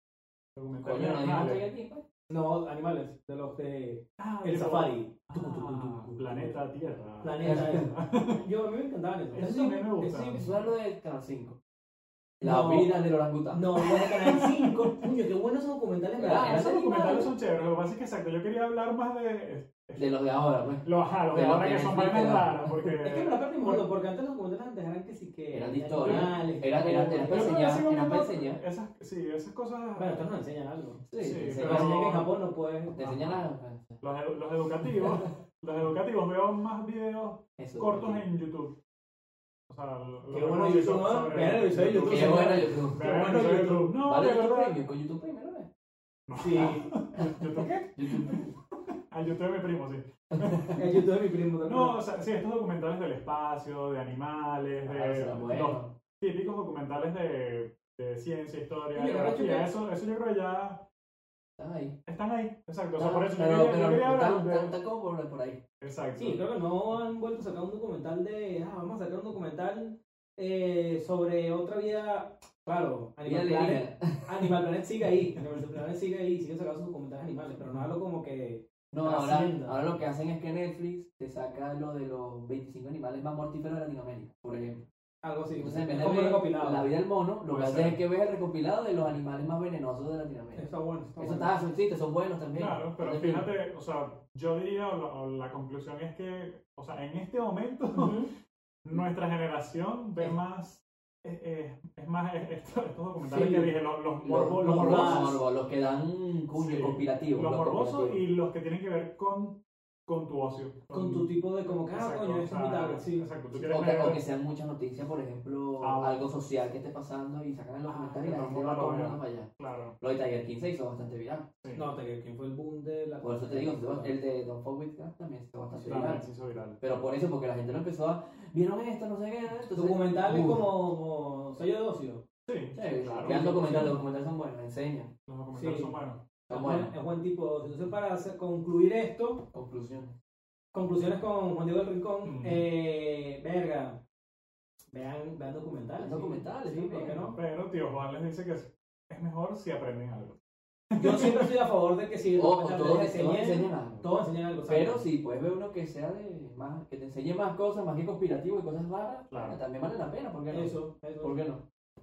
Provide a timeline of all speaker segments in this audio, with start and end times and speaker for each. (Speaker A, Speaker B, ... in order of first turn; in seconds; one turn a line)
Speaker A: 0.5-1.6
Speaker B: 0.8-2.0
Speaker C: 2.3-6.6
Speaker A: 4.2-8.4
Speaker C: 7.2-10.4
Speaker B: 7.4-7.9
Speaker A: 9.3-10.6
Speaker B: 10.3-11.6
Speaker B: 12.4-14.1
Speaker C: 12.4-13.0
Speaker C: 13.5-16.8
Speaker A: 14.2-15.0
Speaker B: 16.2-17.3
Speaker A: 16.2-20.1
Speaker B: 19.9-22.9
Speaker A: 20.8-23.9
Speaker C: 22.9-27.7
Speaker B: 25.5-28.6
Speaker A: 26.0-26.4
Speaker A: 27.2-30.2
Speaker C: 30.0-33.0
Speaker B: 31.1-32.0
Speaker A: 31.2-32.3
Speaker B: 32.9-34.0
Speaker A: 33.0-33.5
Speaker A: 34.0-38.8
Speaker B: 35.0-35.3
Speaker B: 37.6-38.2
Speaker A: 39.7-44.8
Speaker C: 40.3-43.9
Speaker B: 42.0-43.1
Speaker B: 44.0-45.7
Speaker A: 46.3-48.5
Speaker C: 46.4-46.9
Speaker B: 46.6-48.5
Speaker A: 49.1-50.9
Speaker B: 50.3-50.8
Speaker C: 50.7-52.0
Speaker A: 51.6-60.9
Speaker B: 54.8-55.9
Speaker C: 58.9-59.7
Speaker B: 61.6-62.0
Speaker A: 62.0-64.7
Speaker B: 62.9-65.6
Speaker A: 65.8-66.5
Speaker C: 66.2-79.8
Speaker B: 73.2-74.5
Speaker B: 78.9-84.8
Speaker C: 85.2-86.9
Speaker B: 85.6-93.5
Speaker A: 87.5-88.0
Speaker C: 90.5-91.5
Speaker A: 92.5-98.2
Speaker C: 97.9-98.3
Speaker A: 98.8-105.4
Speaker C: 103.2-103.8
Speaker B: 104.2-108.2
Speaker C: 104.3-105.4
Speaker A: 106.5-111.3
Speaker C: 110.9-113.3
Speaker A: 111.9-114.2
Speaker B: 113.5-121.5
Speaker A: 115.8-116.3
Speaker A: 117.8-120.0
Speaker A: 121.6-121.9
Speaker C: 121.7-124.2
Speaker B: 123.2-126.2
Speaker C: 125.8-126.1
Speaker A: 125.8-126.8
Speaker B: 126.8-130.6
Speaker C: 129.7-132.2
Speaker A: 132.4-134.0
Speaker B: 132.7-135.1
Speaker C: 133.2-133.9
Speaker A: 135.3-136.3
Speaker C: 135.5-136.0
Speaker B: 136.5-136.9
Speaker C: 136.5-139.4
Speaker B: 139.5-140.1
Speaker C: 140.7-144.0
Speaker A: 142.2-142.6
Speaker C: 144.9-147.3
Speaker B: 146.0-147.3
Speaker A: 147.3-150.4
Speaker A: 150.9-151.5
Speaker C: 150.9-155.0
Speaker B: 152.3-154.1
Speaker B: 154.7-161.6
Speaker A: 159.3-159.6
Speaker C: 160.5-161.4